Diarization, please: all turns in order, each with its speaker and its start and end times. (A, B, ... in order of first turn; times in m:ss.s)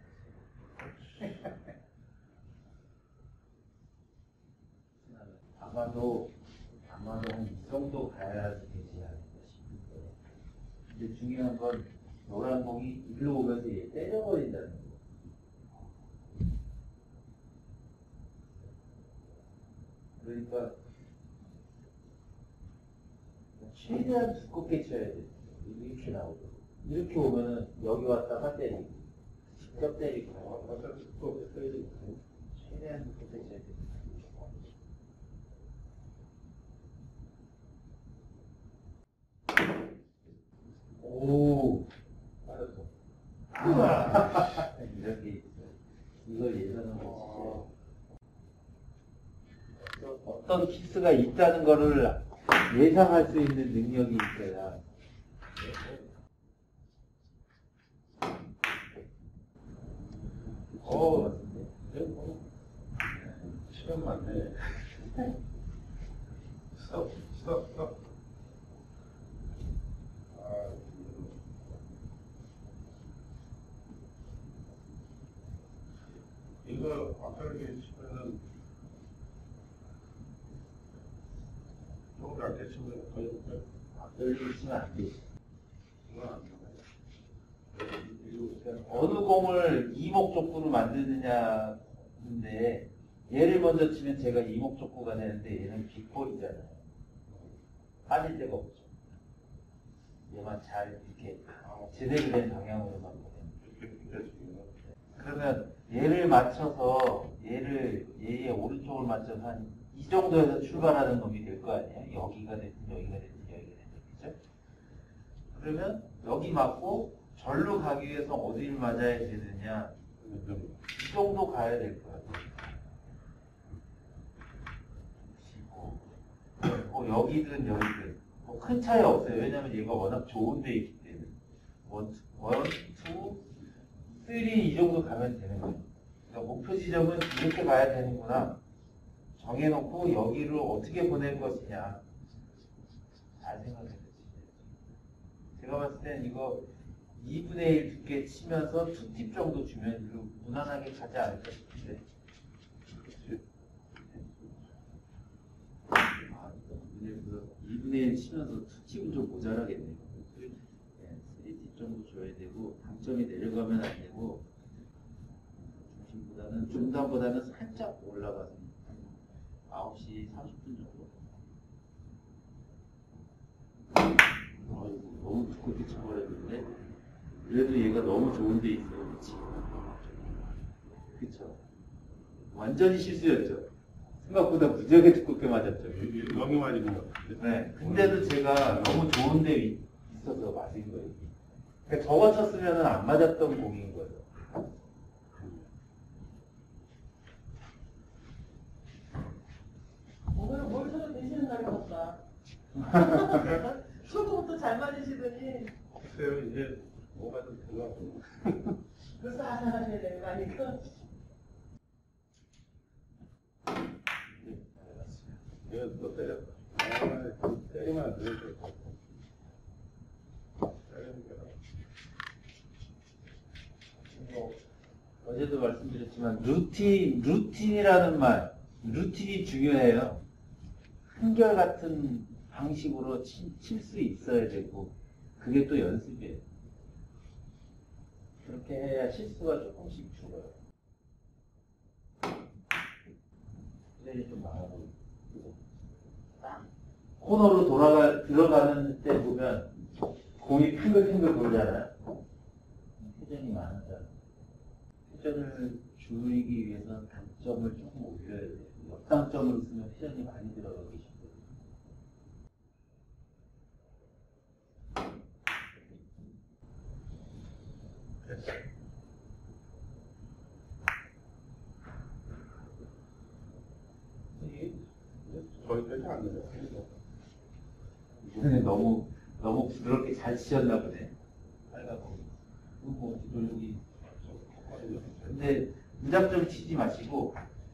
0:05.0-0:06.3 A
0:06.8-0:10.2 A
0:10.9-0:15.0 A
0:20.2-0:20.8 A
0:23.6-0:30.8 A
0:30.4-0:32.2 B
0:32.6-0:34.6 A
0:41.0-0:41.9 A
0:42.5-0:42.8 A
0:43.5-0:47.7 A
0:49.8-0:54.8 A
1:00.8-1:01.7 A
1:00.8-1:01.3 B
1:01.8-1:02.4 B
1:03.2-1:03.6 A
1:03.6-1:05.1 B
1:06.7-1:08.0 B
1:10.3-1:11.4 B
1:16.6-1:18.4 B
1:22.2-1:23.6 B
1:23.9-1:25.2 A
1:26.0-1:26.8 B
1:27.7-1:29.3 B
1:28.7-1:36.8 A
1:38.1-1:39.0 A
1:40.3-1:43.6 A
1:43.6-1:44.7 B
1:45.2-1:54.4 A
1:55.5-2:00.0 A
2:00.2-2:00.8 B
2:00.9-2:02.6 A
2:05.3-2:06.1 A
2:06.6-2:13.5 A
2:14.1-2:18.6 A
2:19.4-2:22.0 A
2:23.4-2:24.7 A
2:25.6-2:32.0 A
2:33.1-2:33.4 B
2:36.2-2:44.5 A
2:45.9-2:49.2 A
2:49.7-2:51.2 A
2:54.6-2:56.7 A
2:57.4-2:59.7 A
3:01.2-3:01.6 A
3:02.5-3:03.7 A
3:04.2-3:06.1 A
3:05.9-3:09.0 B
3:07.4-3:11.3 A
3:11.9-3:14.3 A
3:15.3-3:15.7 B
3:20.3-3:22.2 C
3:23.1-3:25.7 C
3:25.9-3:28.8 B
3:29.2-3:30.9 C
3:34.4-3:35.4 A
3:35.6-3:38.9 B
3:40.8-3:41.5 B
3:44.1-3:44.6 A
3:45.2-3:50.2 A
3:51.1-3:56.4 A
3:58.4-4:00.6 A
4:04.0-4:05.6 A
4:06.4-4:06.7 A
4:07.2-4:09.8 A
4:10.4-4:11.9 A
4:13.0-4:14.1 A
4:15.1-4:21.5 A
4:28.2-4:28.6 B
4:34.4-4:34.8 A
4:35.2-4:36.9 B
4:38.2-4:41.1 A
4:41.7-4:43.8 A
4:44.2-4:45.4 B
4:45.2-4:47.4 A